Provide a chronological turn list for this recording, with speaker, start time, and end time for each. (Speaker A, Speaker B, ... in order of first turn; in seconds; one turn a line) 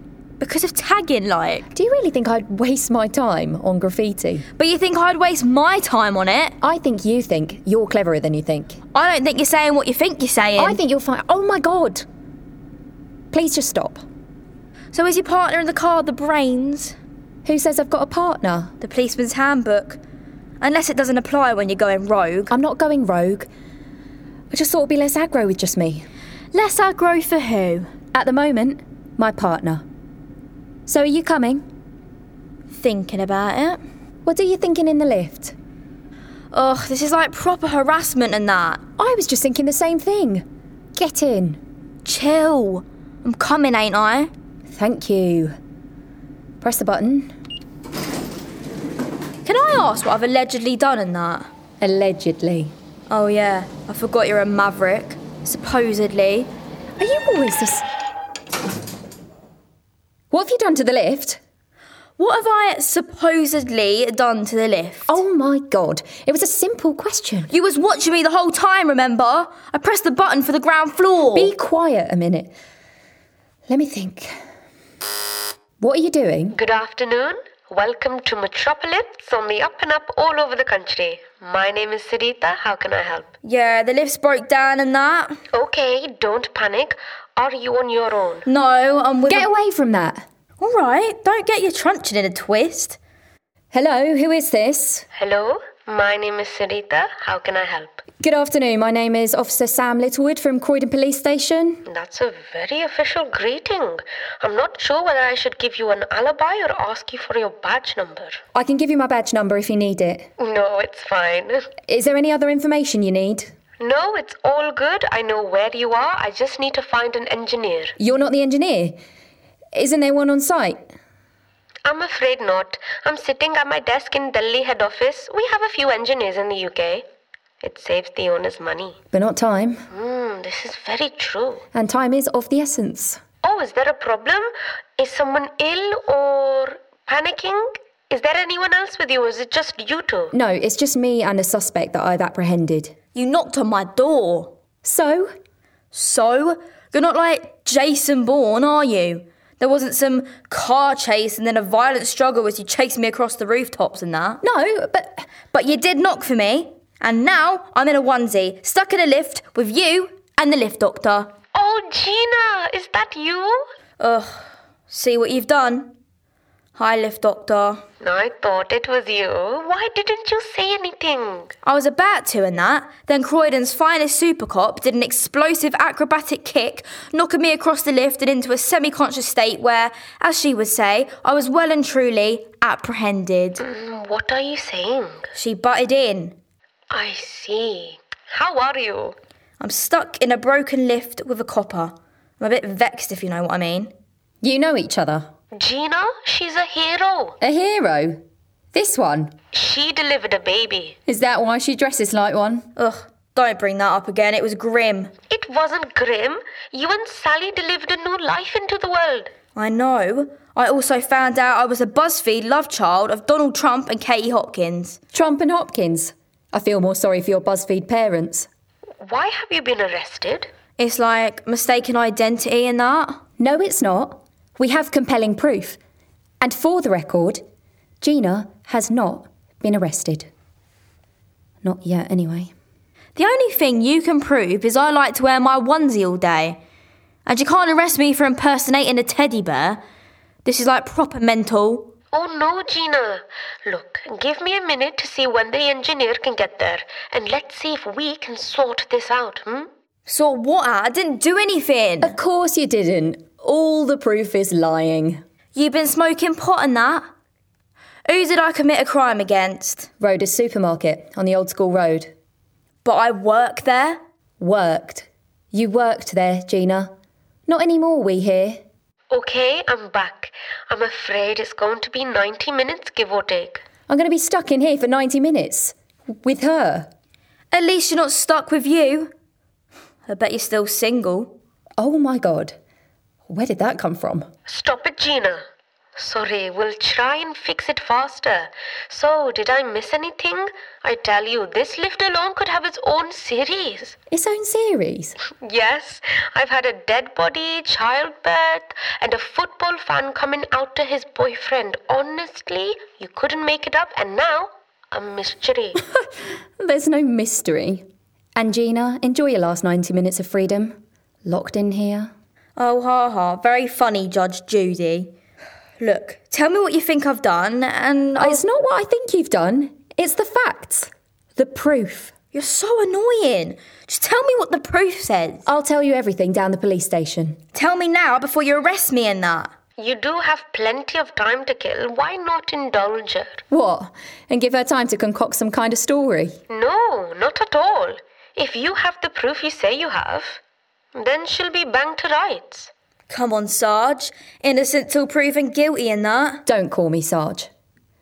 Speaker A: 0.4-1.7
Speaker B: 1.7-4.5
Speaker A: 4.6-6.5
Speaker B: 6.6-8.8
Speaker A: 8.9-10.8
Speaker B: 10.6-12.1
Speaker B: 13.3-14.0
Speaker A: 14.9-17.0
Speaker B: 17.4-18.7
Speaker A: 18.8-20.0
Speaker A: 20.6-22.5
Speaker B: 22.5-23.5
Speaker B: 24.5-26.1
Speaker A: 26.5-27.9
Speaker B: 28.1-29.8
Speaker B: 30.9-31.6
Speaker A: 32.7-33.8
Speaker B: 34.2-35.5
Speaker A: 36.5-38.8
Speaker B: 39.0-40.4
Speaker B: 41.0-41.6
Speaker A: 42.0-44.3
Speaker B: 44.7-45.6
Speaker B: 46.6-47.3
Speaker A: 49.5-51.5
Speaker B: 51.8-52.7
Speaker A: 53.1-56.5
Speaker B: 57.0-57.9
Speaker B: 60.3-61.4
Speaker A: 62.2-65.2
Speaker B: 65.1-67.5
Speaker A: 67.5-71.5
Speaker B: 71.3-72.5
Speaker B: 73.7-74.3
Speaker B: 75.8-76.6
Speaker C: 76.5-83.3
Speaker A: 83.4-85.4
Speaker C: 85.5-88.5
Speaker A: 88.5-89.5
Speaker B: 89.3-90.2
Speaker A: 90.6-93.0
Speaker B: 93.7-95.1
Speaker C: 95.2-98.0
Speaker B: 98.2-101.8
Speaker C: 101.9-108.4
Speaker B: 108.5-110.3
Speaker C: 110.4-111.7
Speaker B: 111.9-113.5
Speaker C: 113.8-118.0
Speaker B: 118.0-119.0
Speaker B: 119.7-120.9
Speaker C: 121.8-127.0
Speaker C: 127.6-129.0
Speaker B: 129.1-129.9
Speaker C: 129.9-131.6
Speaker B: 131.7-133.2
Speaker C: 133.4-140.3
Speaker B: 140.3-142.9
Speaker A: 143.2-144.5
Speaker B: 144.8-145.3
Speaker A: 145.9-154.4
Speaker B: 154.4-155.3
Speaker A: 155.5-161.3
Speaker C: 161.5-163.7
Speaker A: 164.0-165.9
Speaker A: 166.8-167.8
Speaker C: 168.0-171.5
Speaker A: 171.7-183.6
Speaker C: 183.6-185.3
Speaker A: 185.3-186.4
Speaker C: 186.9-189.2
Speaker A: 189.6-193.9
Speaker B: 194.4-195.3
Speaker C: 195.6-197.4
Speaker B: 197.4-198.2
Speaker B: 198.7-199.3
Speaker C: 199.5-201.0
Speaker B: 201.1-202.7
Speaker A: 202.8-205.1
Speaker C: 205.3-209.3
Speaker A: 209.6-215.0
Speaker B: 215.1-218.5
Speaker C: 219.0-220.5
Speaker A: 220.8-223.2
Speaker B: 223.4-225.8
Speaker B: 226.4-227.4
Speaker B: 228.0-230.3
Speaker B: 231.6-232.5
Speaker A: 233.2-236.6
Speaker A: 237.3-239.8
Speaker A: 240.4-241.9
Speaker C: 242.1-249.7
Speaker A: 250.1-252.2
Speaker B: 252.0-255.2
Speaker A: 255.6-257.1
Speaker A: 258.1-259.9
Speaker B: 260.0-262.1
Speaker A: 262.8-264.0
Speaker B: 264.4-266.9
Speaker B: 267.5-268.6
Speaker C: 269.1-273.6
Speaker B: 273.9-276.9
Speaker A: 277.5-279.1
Speaker A: 280.1-281.3
Speaker B: 281.8-282.6
Speaker B: 283.3-284.3
Speaker C: 284.5-285.4
Speaker C: 286.0-293.9
Speaker B: 294.1-295.2
Speaker C: 295.4-305.8
Speaker B: 305.8-306.1
Speaker B: 306.6-312.1
Speaker A: 312.6-315.1
Speaker A: 315.8-318.4
Speaker B: 318.2-322.1
Speaker A: 322.3-325.4
Speaker B: 325.5-327.4
Speaker A: 327.5-329.5
Speaker C: 329.8-333.4
Speaker B: 333.5-336.4
Speaker C: 336.5-340.4
Speaker C: 340.9-342.7
Speaker A: 343.1-346.4
Speaker B: 346.5-347.5